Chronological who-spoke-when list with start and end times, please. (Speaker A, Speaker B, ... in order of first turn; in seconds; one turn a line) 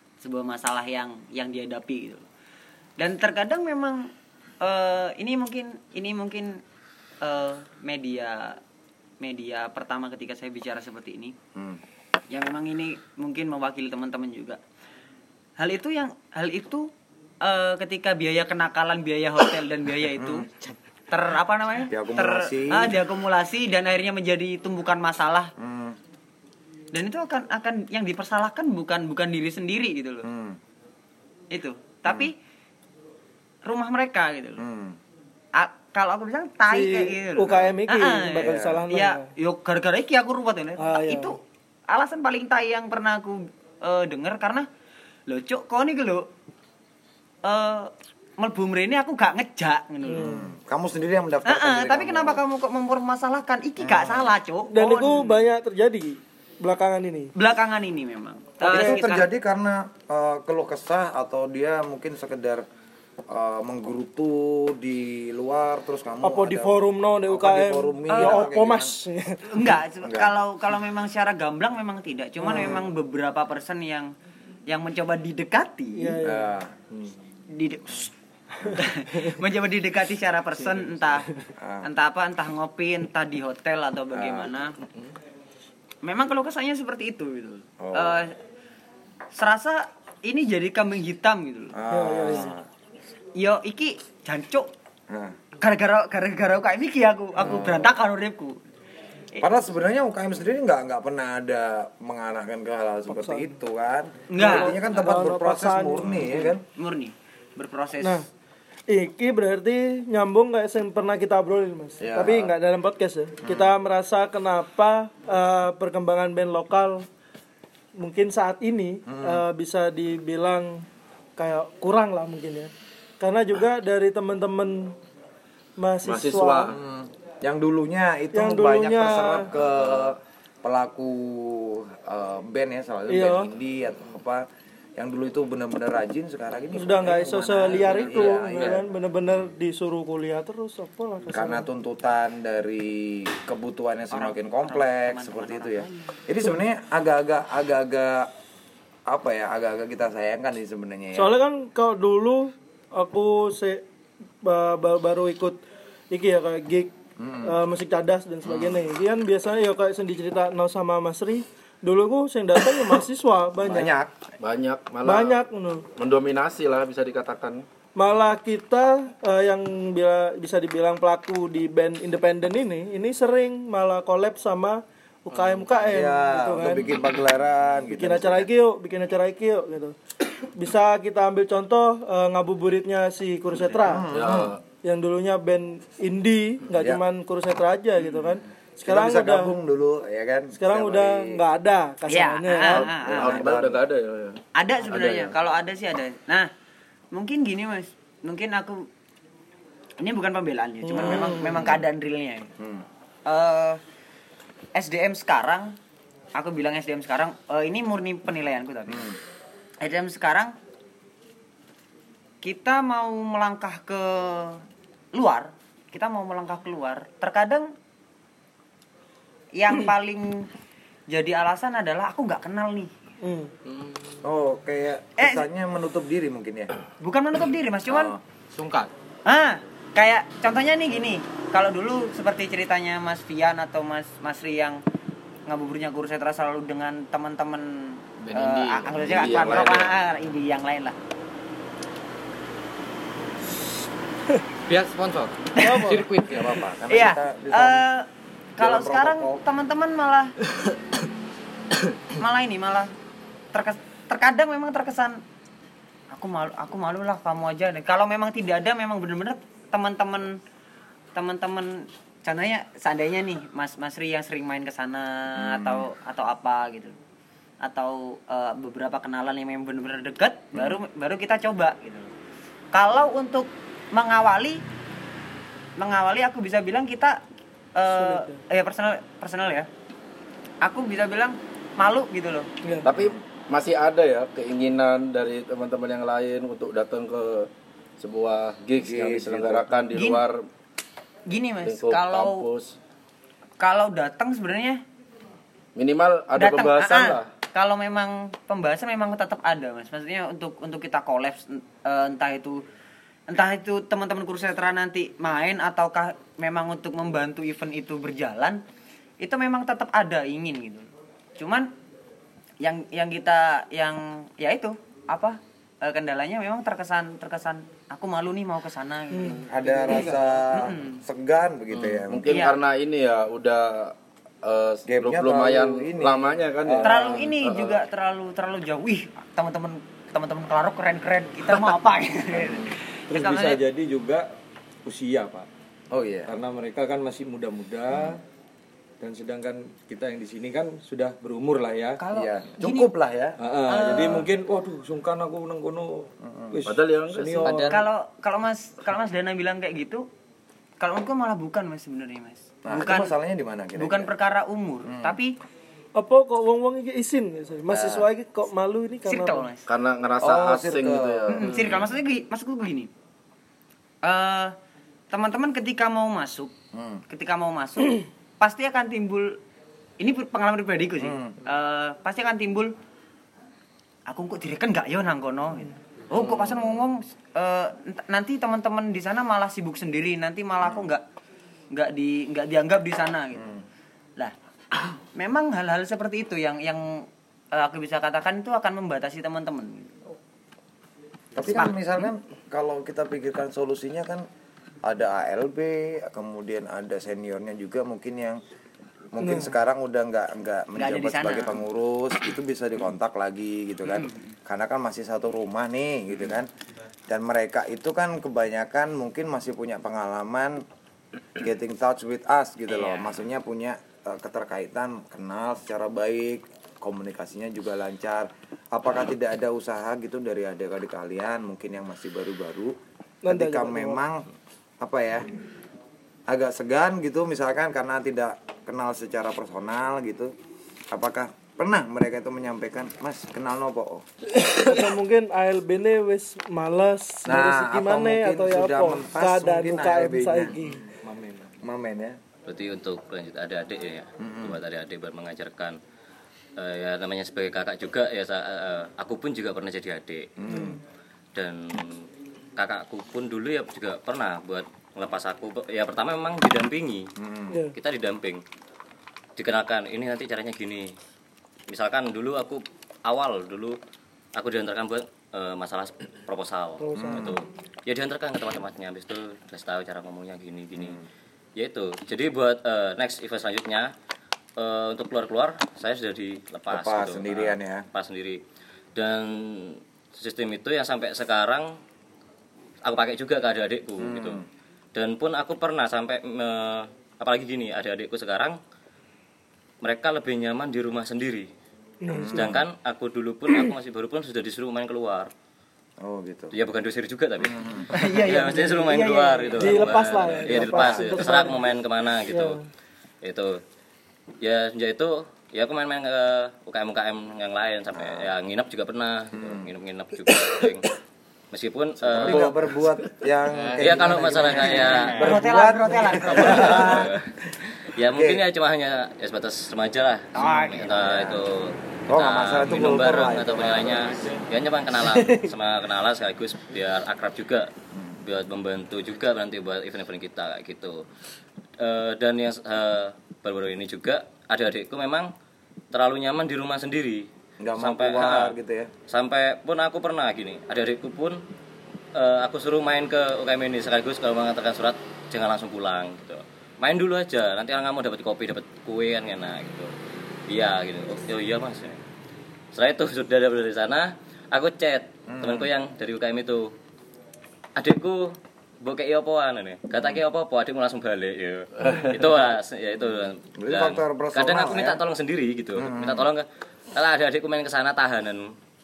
Speaker A: 0.2-2.2
Speaker A: 3.0-4.1
Speaker A: 4.6-6.6
Speaker A: 7.2-8.6
Speaker A: 9.2-11.3
Speaker B: 11.5-11.8
Speaker A: 12.3-14.6
Speaker A: 15.6-16.9
Speaker A: 17.4-20.5
Speaker B: 20.1-20.5
Speaker A: 21.1-25.5
Speaker B: 21.9-23.0
Speaker B: 25.6-26.0
Speaker A: 26.9-30.3
Speaker B: 30.2-30.6
Speaker A: 31.5-32.3
Speaker A: 33.6-34.6
Speaker B: 34.6-35.0
Speaker A: 35.5-41.4
Speaker C: 36.7-39.3
Speaker B: 37.4-37.7
Speaker B: 38.3-38.8
Speaker C: 40.8-41.3
Speaker A: 41.9-44.7
Speaker A: 45.3-46.3
Speaker A: 47.4-50.2
Speaker C: 50.1-50.5
Speaker B: 50.2-52.4
Speaker A: 51.5-55.3
Speaker B: 53.8-54.3
Speaker C: 54.7-57.3
Speaker A: 57.3-59.3
Speaker B: 58.6-62.6
Speaker C: 58.7-59.0
Speaker B: 63.3-69.0
Speaker C: 66.2-69.6
Speaker A: 68.1-68.5
Speaker A: 69.5-74.1
Speaker B: 70.0-70.3
Speaker C: 72.4-72.8
Speaker B: 72.4-72.8
Speaker A: 74.7-76.2
Speaker C: 76.0-76.5
Speaker B: 76.2-76.7
Speaker A: 77.5-78.1
Speaker A: 78.7-81.3
Speaker B: 81.6-81.9
Speaker A: 81.8-84.7
Speaker B: 84.1-84.5
Speaker A: 86.0-88.3
Speaker B: 87.8-88.2
Speaker A: 89.3-91.7
Speaker B: 91.7-92.7
Speaker C: 91.9-92.5
Speaker A: 93.3-94.7
Speaker B: 95.1-95.4
Speaker A: 95.6-98.6
Speaker B: 97.4-97.9
Speaker B: 99.4-106.6
Speaker C: 103.1-103.6
Speaker A: 104.3-104.8
Speaker C: 104.4-106.5
Speaker A: 106.8-108.2
Speaker C: 108.9-117.0
Speaker B: 112.0-112.5
Speaker B: 113.4-113.7
Speaker C: 118.0-120.8
Speaker B: 119.0-119.4
Speaker C: 121.4-124.9
Speaker C: 125.8-126.7
Speaker D: 126.0-126.8
Speaker B: 126.7-134.4
Speaker C: 128.3-129.5
Speaker C: 133.1-133.5
Speaker B: 135.0-138.8
Speaker C: 136.7-141.7
Speaker B: 141.3-148.3
Speaker A: 144.1-146.2
Speaker B: 149.1-151.3
Speaker C: 151.1-153.8
Speaker C: 154.4-155.6
Speaker C: 156.1-156.9
Speaker B: 157.2-157.6
Speaker C: 157.4-163.9
Speaker B: 158.4-158.8
Speaker B: 163.6-164.1
Speaker D: 164.4-165.4
Speaker C: 165.0-165.9
Speaker D: 166.0-167.6
Speaker C: 167.9-177.0
Speaker B: 175.7-178.5
Speaker C: 177.9-179.9
Speaker C: 180.5-184.1
Speaker A: 183.5-183.9
Speaker B: 183.8-184.6
Speaker D: 184.1-184.6
Speaker C: 184.8-189.5
Speaker B: 186.7-187.0
Speaker B: 188.8-191.4
Speaker C: 190.5-192.9
Speaker A: 192.1-193.4
Speaker D: 192.7-195.3
Speaker B: 193.1-193.8
Speaker A: 194.6-196.5
Speaker A: 197.1-198.8
Speaker A: 200.0-202.5
Speaker C: 200.8-201.7
Speaker B: 200.9-201.8
Speaker B: 202.6-202.8
Speaker A: 203.2-203.8
Speaker A: 204.7-205.7
Speaker A: 206.3-209.1
Speaker B: 208.9-209.2
Speaker A: 209.8-210.5
Speaker A: 212.4-214.6
Speaker A: 215.1-217.7
Speaker A: 219.6-220.4
Speaker A: 221.1-222.9
Speaker C: 223.2-223.5
Speaker E: 223.7-224.2
Speaker B: 224.2-226.7
Speaker A: 225.2-225.4
Speaker A: 227.0-228.1
Speaker B: 227.9-228.2
Speaker E: 228.5-228.9
Speaker A: 229.2-234.8
Speaker A: 235.5-240.9
Speaker D: 238.3-239.9
Speaker E: 244.7-246.6
Speaker A: 245.6-246.0
Speaker C: 245.6-246.1
Speaker B: 246.3-247.8
Speaker A: 246.9-250.3
Speaker B: 248.6-249.4
Speaker A: 252.2-252.9
Speaker A: 253.5-255.2
Speaker A: 256.1-260.4
Speaker A: 261.1-266.9
Speaker B: 265.4-265.9
Speaker A: 267.6-272.1
Speaker B: 270.5-270.8
Speaker A: 272.7-274.6
Speaker A: 275.8-277.2
Speaker A: 277.8-279.7
Speaker C: 277.9-278.4
Speaker A: 280.6-282.5
Speaker D: 282.8-287.5
Speaker B: 282.9-283.2
Speaker D: 288.0-290.4
Speaker B: 288.8-289.8
Speaker A: 289.9-290.2
Speaker A: 291.3-292.5
Speaker D: 291.6-292.7
Speaker A: 293.6-294.8
Speaker D: 295.8-297.3
Speaker A: 296.4-302.6
Speaker A: 303.3-308.6
Speaker A: 309.2-311.7
Speaker A: 312.6-321.0
Speaker C: 319.1-319.4
Speaker B: 319.5-322.4
Speaker D: 321.7-327.8
Speaker A: 322.3-322.6
Speaker B: 324.9-326.8
Speaker A: 326.8-333.6
Speaker B: 332.4-332.7
Speaker F: 333.1-334.2
Speaker F: 334.8-335.5
Speaker B: 335.9-336.3
Speaker F: 336.3-338.2
Speaker B: 337.9-338.2
Speaker F: 339.0-342.0
Speaker A: 342.0-342.9
Speaker B: 342.1-344.2
Speaker F: 343.4-347.7
Speaker A: 343.7-344.2
Speaker B: 346.2-346.6
Speaker D: 346.6-347.7
Speaker E: 347.4-347.8
Speaker A: 347.7-350.0
Speaker A: 350.8-353.1
Speaker B: 352.6-354.1
Speaker A: 353.8-355.3
Speaker B: 354.9-355.2
Speaker C: 355.9-359.5
Speaker B: 357.7-358.1
Speaker A: 359.1-359.6
Speaker D: 359.7-361.6
Speaker B: 360.2-361.7
Speaker A: 361.3-362.9
Speaker A: 364.0-364.5
Speaker A: 365.1-366.5
Speaker B: 366.7-367.0
Speaker A: 367.1-369.4
Speaker A: 370.0-372.7
Speaker B: 371.0-371.4
Speaker A: 374.1-381.0
Speaker B: 376.1-376.8
Speaker B: 380.6-380.9
Speaker A: 381.7-383.5
Speaker B: 383.4-383.6
Speaker A: 384.2-390.0
Speaker B: 391.3-394.3
Speaker A: 391.4-392.1
Speaker B: 394.8-398.4
Speaker B: 399.1-406.5
Speaker C: 399.2-399.5
Speaker A: 400.8-401.6
Speaker A: 403.9-404.3
Speaker B: 407.1-410.6
Speaker B: 411.4-422.8
Speaker A: 412.7-413.1
Speaker C: 423.2-424.0
Speaker B: 423.3-424.3
Speaker B: 424.8-425.3
Speaker B: 426.3-430.3
Speaker B: 430.9-434.0
Speaker C: 434.3-440.8
Speaker B: 437.2-440.6
Speaker F: 440.8-441.6
Speaker B: 441.6-442.2
Speaker G: 442.5-445.8
Speaker B: 444.2-444.6
Speaker G: 446.6-450.3
Speaker B: 450.4-450.8
Speaker C: 450.5-450.8
Speaker G: 451.3-457.1
Speaker B: 457.2-457.6
Speaker G: 457.7-458.4
Speaker G: 459.4-460.9
Speaker G: 461.7-463.8
Speaker G: 464.3-471.0
Speaker C: 466.8-467.3
Speaker B: 466.9-467.4
Speaker B: 470.8-471.0
Speaker G: 471.6-473.9
Speaker G: 474.6-478.4
Speaker B: 476.7-477.9
Speaker G: 478.9-481.7
Speaker G: 482.8-484.4
Speaker B: 484.0-484.4
Speaker G: 484.9-488.6
Speaker G: 489.8-491.5
Speaker C: 492.0-492.6
Speaker B: 492.1-492.6
Speaker G: 492.3-495.3
Speaker B: 496.0-496.5
Speaker G: 496.5-502.6
Speaker B: 497.4-497.9
Speaker A: 497.9-498.6
Speaker C: 497.9-501.7
Speaker B: 499.7-501.4
Speaker C: 502.3-502.6
Speaker G: 503.2-503.6
Speaker G: 504.4-510.9
Speaker B: 507.9-508.3
Speaker B: 509.3-509.7
Speaker G: 511.5-512.5
Speaker B: 512.0-517.1
Speaker E: 513.5-515.4
Speaker G: 513.8-515.1
Speaker A: 515.2-517.0
Speaker G: 516.3-517.1
Speaker G: 517.8-527.7
Speaker B: 518.1-518.4
Speaker B: 520.4-521.4
Speaker A: 520.4-520.8
Speaker B: 522.1-524.3
Speaker B: 527.9-528.2
Speaker G: 528.2-531.0
Speaker G: 531.8-535.3
Speaker G: 535.9-538.5
Speaker B: 537.6-538.9
Speaker G: 539.1-541.4
Speaker G: 542.1-549.9
Speaker G: 550.5-552.0
Speaker G: 552.7-556.7
Speaker B: 555.3-555.7
Speaker G: 557.8-568.5
Speaker D: 561.8-562.1
Speaker B: 563.6-565.0
Speaker B: 565.8-566.3